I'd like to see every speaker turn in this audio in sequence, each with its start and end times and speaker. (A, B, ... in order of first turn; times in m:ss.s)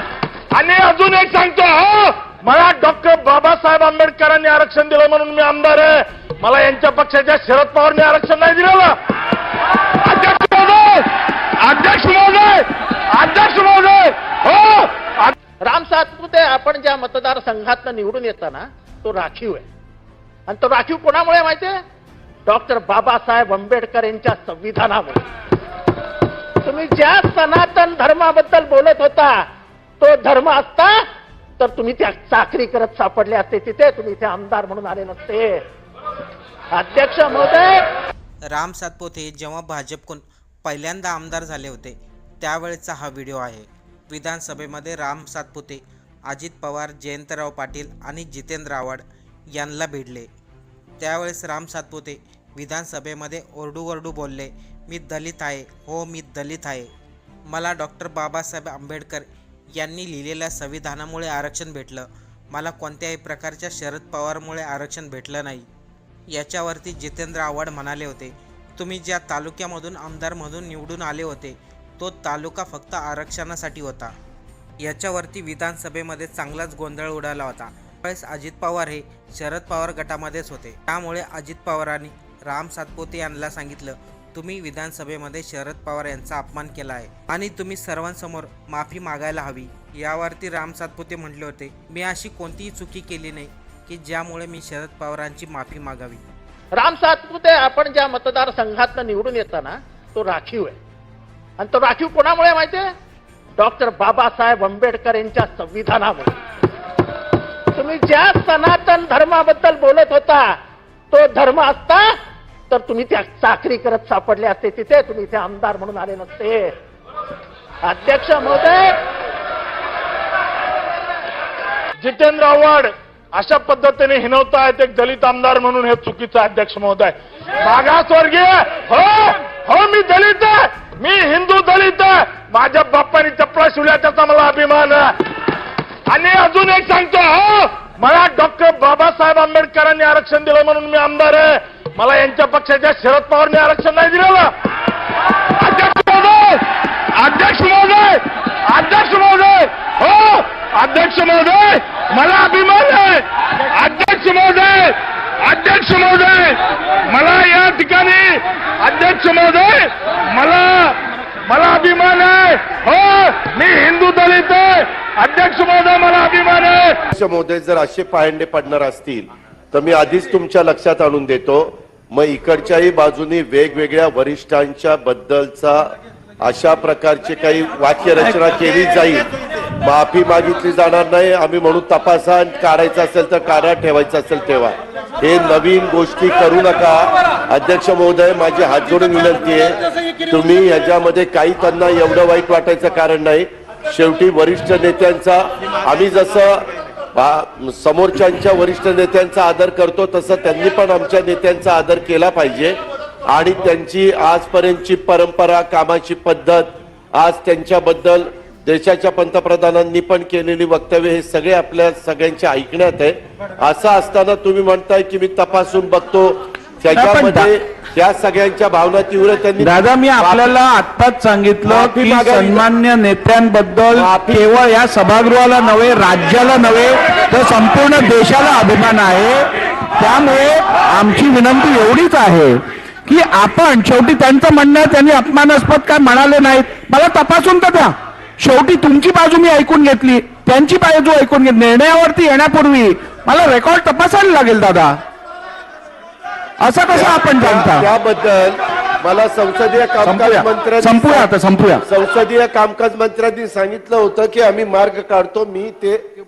0:00.5-0:08.9 A
0:10.0-0:15.4 A
0:15.6-0:19.6 B
0:20.5-0:21.7 B
0:22.4-0:25.2 B
0:26.6-0:29.4 B
0:30.0-0:31.0 B
0:31.6-0:35.6 B
0:36.7-0:37.8 B
0:38.5-0:50.3 C
0:51.0-0:56.9 C
0:57.5-1:05.7 C
1:06.3-1:14.1 C
1:14.8-1:36.2 C
1:36.8-1:40.8 B
1:41.6-1:42.8 B
1:43.6-1:46.3 B
1:47.7-1:50.5 B
1:51.1-1:52.1 B
1:52.7-1:56.7 B
1:57.9-1:59.0 B
2:02.0-2:15.1 A
2:16.1-2:24.5 A
2:25.5-2:47.0 A
2:47.1-2:55.9 D
2:56.4-2:59.2 D
2:59.8-3:16.6 D
3:17.2-3:22.8 D
3:23.3-3:40.5 D
3:36.9-3:37.5 E
3:39.6-4:05.0 E
3:41.6-3:42.6 D
3:43.9-3:44.5 D
4:06.6-4:07.9 E
4:06.9-4:16.0 D
4:10.0-4:11.8 E